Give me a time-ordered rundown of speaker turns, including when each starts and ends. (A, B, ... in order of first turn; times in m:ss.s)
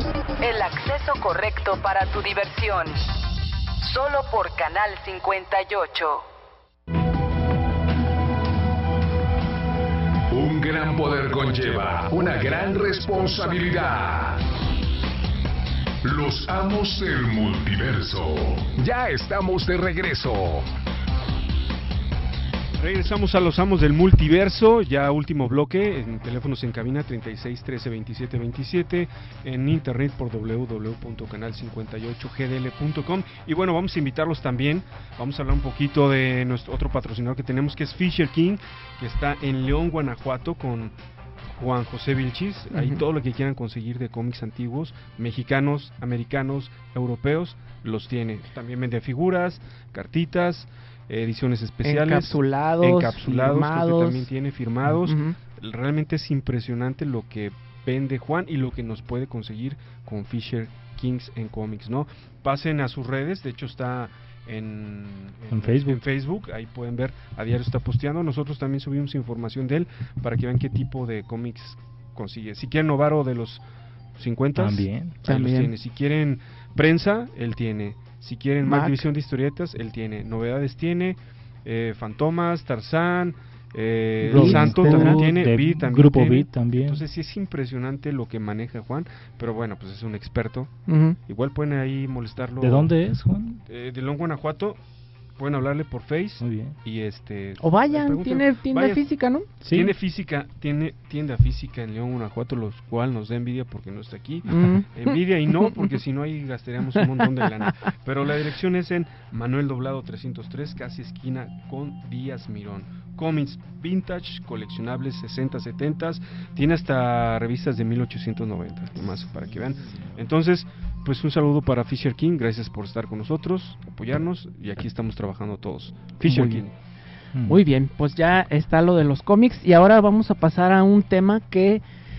0:00.4-0:03.0 A
0:03.8-0:06.3 A
0:10.3-0:14.4 B
0:16.0-0:20.7 B
0:22.8-0:40.9 C
0:41.6-1:13.6 C
0:42.7-0:43.0 D
0:51.8-0:54.3 D
0:55.0-0:55.4 D
1:05.5-1:06.0 E
1:14.2-1:30.7 C
1:14.6-1:15.2 E
1:15.2-1:15.7 D
1:18.6-1:19.1 D
1:24.3-1:27.0 E
1:24.3-1:25.2 D
1:30.9-1:31.2 D
1:31.3-1:32.9 C
1:32.6-1:33.6 E
1:33.7-1:34.8 C
1:35.4-1:39.0 C
1:36.4-1:36.7 E
1:37.6-1:39.5 D
1:39.6-1:39.9 E
1:39.7-2:06.7 C
1:44.5-1:45.9 D
1:47.0-1:47.4 D
2:06.3-2:06.6 D
2:07.5-2:11.8 D